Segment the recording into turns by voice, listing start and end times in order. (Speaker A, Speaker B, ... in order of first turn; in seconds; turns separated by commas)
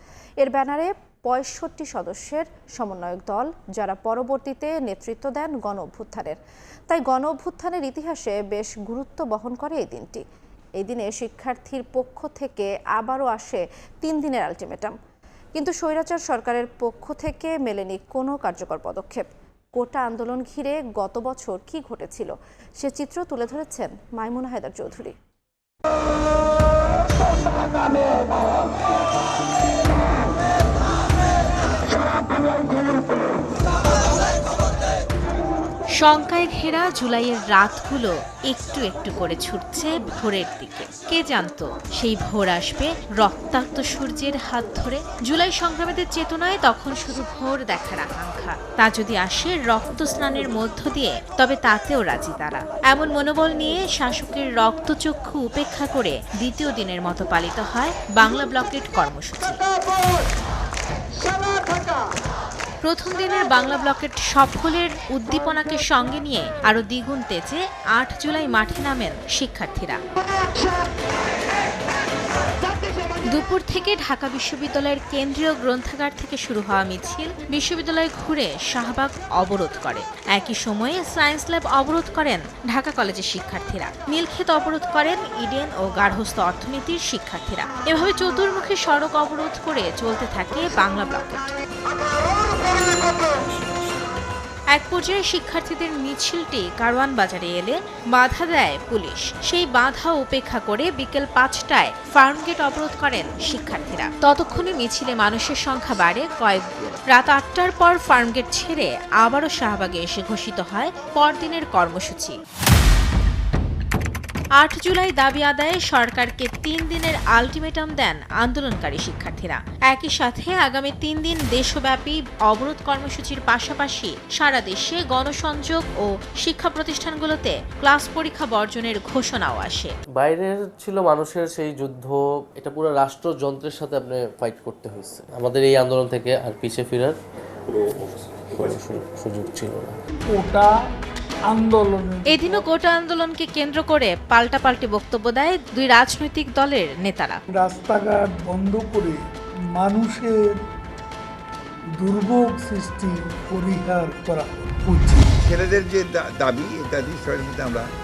Speaker A: 0.4-10.2, Speaker A: 10.8-14.9, Speaker A: 15.5-25.1, Speaker B: 36.0-59.6, Speaker B: 62.8-70.0, Speaker B: 73.2-91.6, Speaker B: 94.7-112.4, Speaker B: 114.6-129.9, Speaker C: 130.1-137.2, Speaker C: 137.7-140.0, Speaker D: 140.3-140.7, Speaker D: 141.5-142.6, Speaker B: 142.3-147.4, Speaker D: 147.5-149.2, Speaker D: 149.7-150.6, Speaker D: 152.0-155.3, Speaker E: 155.4-157.8